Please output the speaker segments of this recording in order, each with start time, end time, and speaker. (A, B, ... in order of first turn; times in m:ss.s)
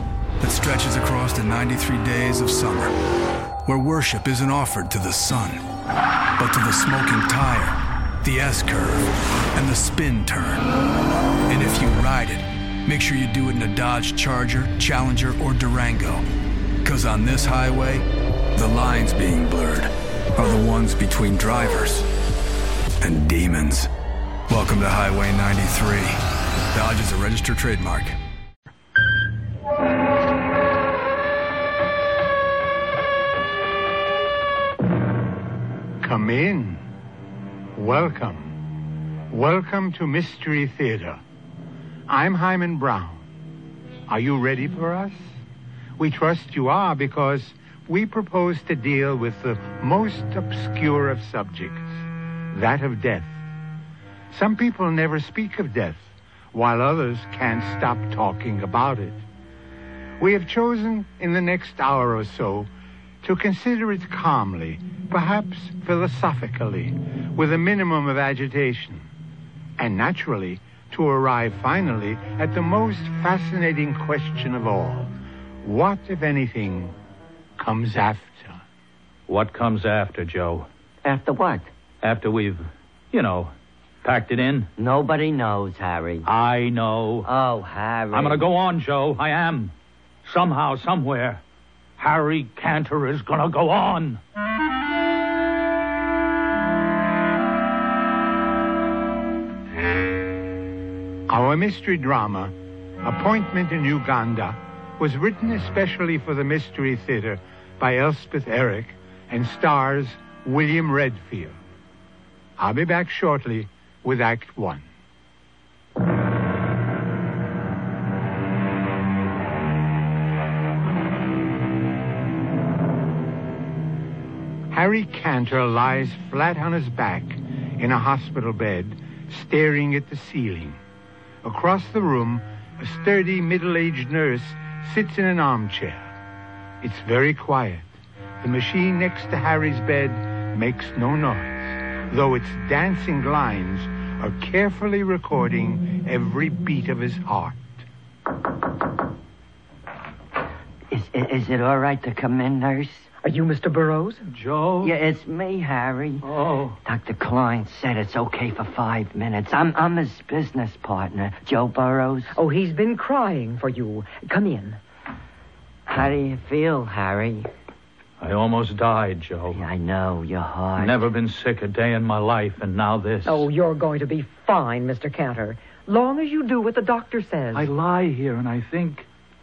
0:00.4-0:02.9 A
0:03.6-0:05.6 A
0:06.4-0:10.6 A
0:11.5-0:16.2 A
0:16.8-0:22.0 A
0:23.0-0:23.9 A
0:24.5-0:26.2 A
0:26.7-0:28.2 A
0:36.0-0:36.8 B
0:37.8-0:38.6 B
0:39.3-0:41.2 B
0:42.1-0:43.2 B
0:44.1-0:45.2 B
0:46.0-0:52.0 B
0:52.5-0:53.4 B
0:54.3-0:59.2 B
1:00.2-1:02.7 B
1:03.2-1:09.1 B
1:09.8-1:16.9 B
1:17.6-1:18.6 B
1:19.3-1:20.7 C
1:21.0-1:21.7 D
1:22.0-1:23.5 C
1:24.0-1:24.7 C
1:24.8-1:26.3 D
1:26.2-1:27.3 C
1:27.2-1:28.4 D
1:28.1-1:29.7 C
1:30.2-1:31.4 C
1:32.0-1:34.2 C
1:41.3-1:51.6 B
1:52.6-1:54.9 B
2:04.7-2:10.8 B
2:11.4-2:16.1 B
2:16.8-2:17.9 B
2:18.4-2:27.7 B
2:30.9-2:33.1 D
2:33.2-2:34.2 E
2:34.3-2:34.9 C
2:34.8-2:36.2 D
2:36.2-2:36.8 C
2:36.8-2:42.3 D
2:42.3-2:44.8 E
2:45.9-2:47.5 D
2:48.2-2:49.6 C
2:49.5-2:51.0 D
2:50.8-2:53.4 C
2:53.2-2:57.7 E
2:57.5-2:59.0 C